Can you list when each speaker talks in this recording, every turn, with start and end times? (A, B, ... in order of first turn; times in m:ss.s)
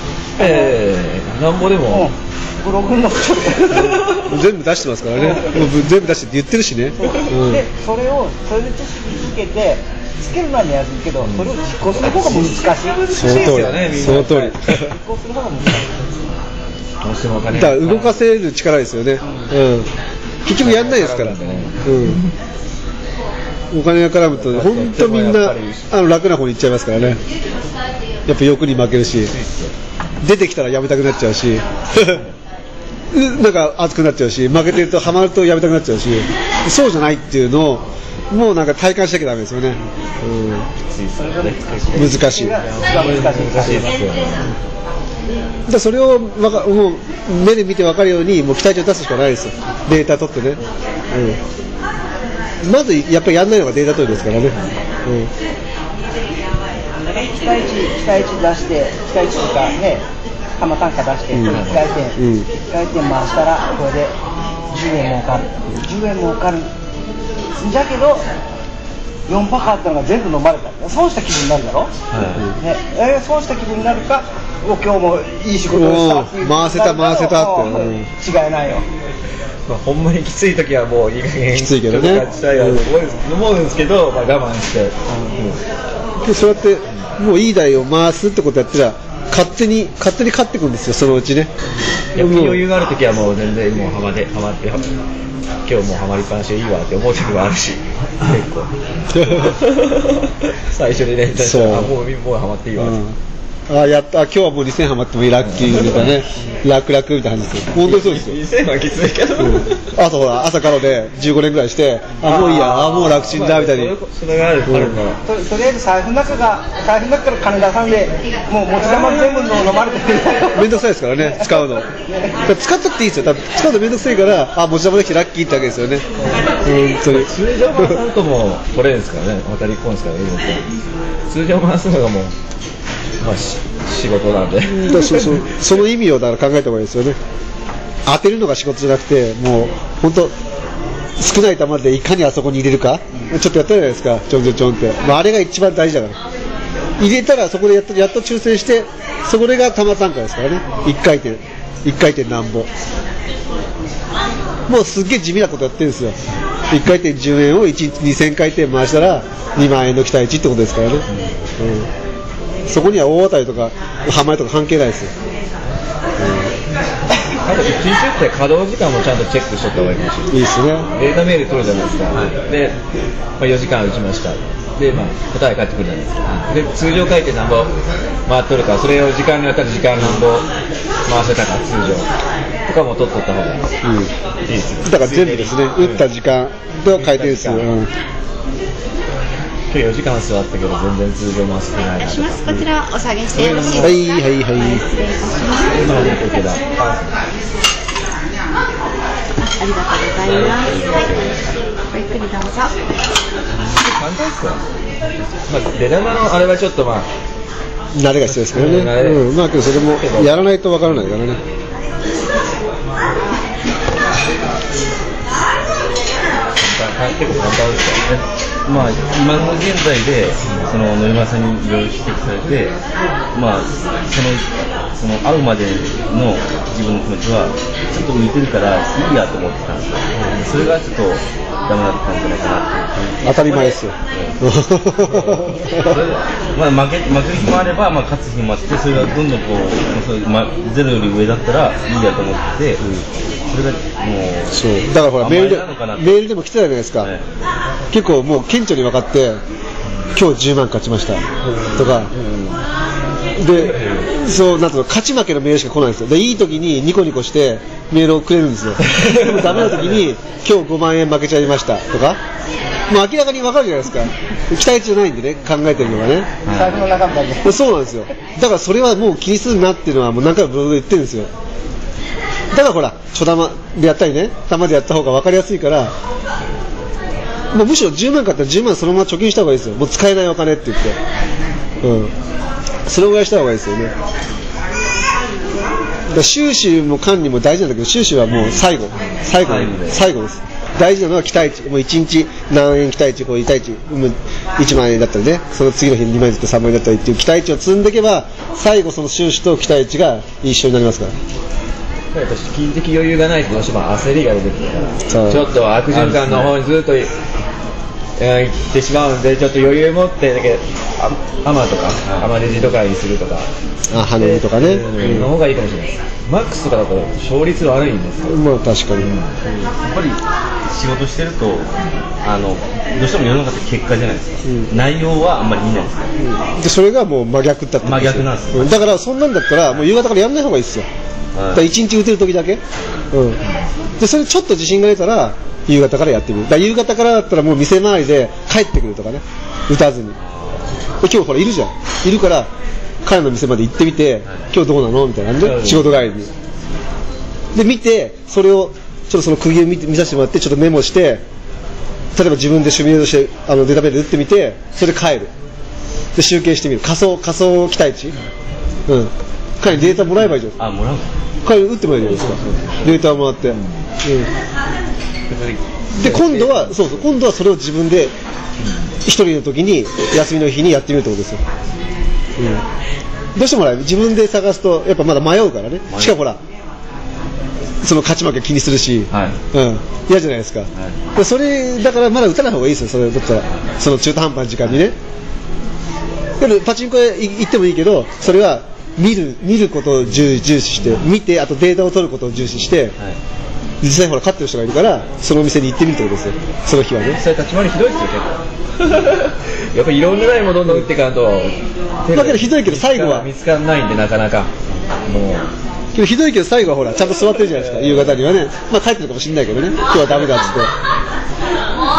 0:00.4-0:02.1 A
0:00.4-0:00.8 B
0:01.9-0:04.0 B
0:03.7-0:04.3 A
0:04.0-0:07.6 C
0:05.2-0:05.7 A
0:06.9-0:13.1 B
0:07.0-0:07.3 A
0:11.2-0:14.9 A
0:13.1-0:14.8 C
0:14.0-0:16.2 B
0:17.0-0:18.2 A
0:17.5-0:19.9 C
0:20.4-0:22.2 C
0:20.6-0:22.3 A
0:23.7-0:27.2 C
0:24.3-0:25.9 A
0:28.3-0:29.3 C
0:29.1-0:29.8 A
0:30.2-0:32.2 C
0:33.1-0:40.6 C
0:40.9-0:44.5 A
0:41.2-0:44.0 B
0:41.9-0:42.6 C
0:45.7-0:50.6 C
0:51.1-0:51.4 C
0:52.6-0:55.3 C
0:54.4-0:54.7 A
0:57.0-1:00.0 B
1:00.6-1:04.1 B
1:01.3-1:01.6 C
1:01.4-1:01.9 A
1:02.2-1:02.5 C
1:04.7-1:06.7 B
1:07.6-1:08.2 B
1:09.3-1:11.9 B
1:12.1-1:12.5 D
1:12.6-1:18.8 B
1:15.7-1:18.1 C
1:19.7-1:25.6 A
1:21.5-1:22.9 C
1:25.1-1:25.3 B
1:26.2-1:31.5 C
1:32.1-1:34.9 A
1:32.2-1:32.6 C
1:35.6-1:38.7 A
1:39.1-1:39.6 C
1:39.2-1:43.0 A
1:41.4-1:41.9 C
1:42.8-1:43.2 C
1:43.7-1:48.4 C
1:45.4-1:46.5 A
1:47.7-1:49.9 A
1:49.4-1:53.9 C
1:52.2-1:55.2 A
1:54.6-1:55.0 C
1:55.2-2:02.4 B
1:58.8-1:59.7 A
2:00.5-2:01.9 C
2:02.4-2:06.0 C
2:06.6-2:08.0 C
2:07.1-2:10.6 A
2:11.3-2:12.3 A
2:13.2-2:15.4 A
2:14.6-2:17.2 C
2:18.0-2:20.3 C
2:21.2-2:26.2 C
2:27.0-2:32.7 C
2:34.7-2:36.2 C
2:36.7-2:41.0 C
2:41.6-2:41.9 C
2:42.7-2:45.1 C
2:46.2-2:46.5 C
2:47.4-2:50.4 A
2:50.3-2:50.9 C
2:50.9-2:52.8 A
2:53.4-2:57.7 A
2:58.3-3:00.5 A
3:01.0-3:02.1 A
3:02.7-3:03.6 A
3:03.8-3:04.1 C
3:04.4-3:06.0 A
3:04.8-3:07.9 C
3:06.9-3:07.7 A
3:09.7-3:12.7 A
3:12.0-3:16.2 E
3:13.6-3:14.8 C
3:15.6-3:17.2 A
3:15.8-3:16.2 D
3:19.4-3:21.3 E
3:20.2-3:21.4 D
3:21.9-3:22.7 E
3:23.5-3:24.6 A
3:25.4-3:27.1 A
3:27.9-3:31.4 C
3:28.2-3:31.0 A
3:36.6-3:38.1 A
3:38.1-3:42.8 D
3:43.3-3:54.4 D
3:53.0-3:56.0 C
3:55.1-3:56.2 A
3:56.5-4:02.8 D
4:03.5-4:06.2 D
4:04.5-4:07.1 C
4:07.0-4:07.2 D
4:07.9-4:09.4 C
4:10.1-4:11.2 C
4:11.4-4:12.1 A
4:11.8-4:12.1 C
4:12.2-4:12.5 D
4:13.4-4:22.2 C
4:13.6-4:14.1 D
4:18.8-4:20.0 A
4:22.9-4:26.4 C
4:26.5-4:26.8 D
4:26.5-4:27.6 B
4:27.4-4:31.3 C
4:32.5-4:35.9 C
4:37.5-4:41.0 C
4:41.8-4:42.1 C
4:42.8-4:43.9 C
4:46.1-5:01.1 C
4:49.4-4:50.0 D
5:02.1-5:07.1 A
5:05.1-5:05.5 C
5:05.9-5:06.6 D
5:08.2-5:13.5 A
5:12.0-5:12.5 D
5:13.9-5:15.3 C
5:14.1-5:18.4 A
5:15.0-5:15.2 D
5:18.3-5:19.6 C
5:19.0-5:19.3 A
5:19.8-5:21.7 D
5:22.2-5:26.1 D
5:24.4-5:24.7 C
5:26.2-5:30.8 C
5:27.8-5:28.8 D
5:31.3-5:31.7 D
5:31.5-5:33.4 C
5:34.0-5:40.2 C
5:40.2-5:40.7 D
5:41.0-5:42.5 C
5:43.0-5:46.3 C
5:45.4-5:46.0 A
5:47.5-5:51.2 C
5:52.2-5:55.3 C
5:56.1-5:58.1 C
5:58.9-6:00.6 C
5:59.8-6:00.4 A
6:00.6-6:01.1 D
6:01.4-6:04.3 C
6:02.0-6:03.8 A
6:05.3-6:07.1 A
6:05.9-6:08.1 C
6:08.6-6:08.9 A
6:09.0-6:11.4 C
6:12.4-6:12.6 C
6:13.4-6:16.4 C
6:15.9-6:16.2 D
6:17.8-6:24.9 C
6:19.1-6:19.4 D
6:26.4-6:32.9 C
6:33.8-6:37.2 C
6:37.0-6:44.5 A
6:42.1-6:43.3 C
6:45.0-6:45.5 A
6:45.9-6:50.7 C
6:47.5-6:48.2 A
6:50.0-6:50.5 A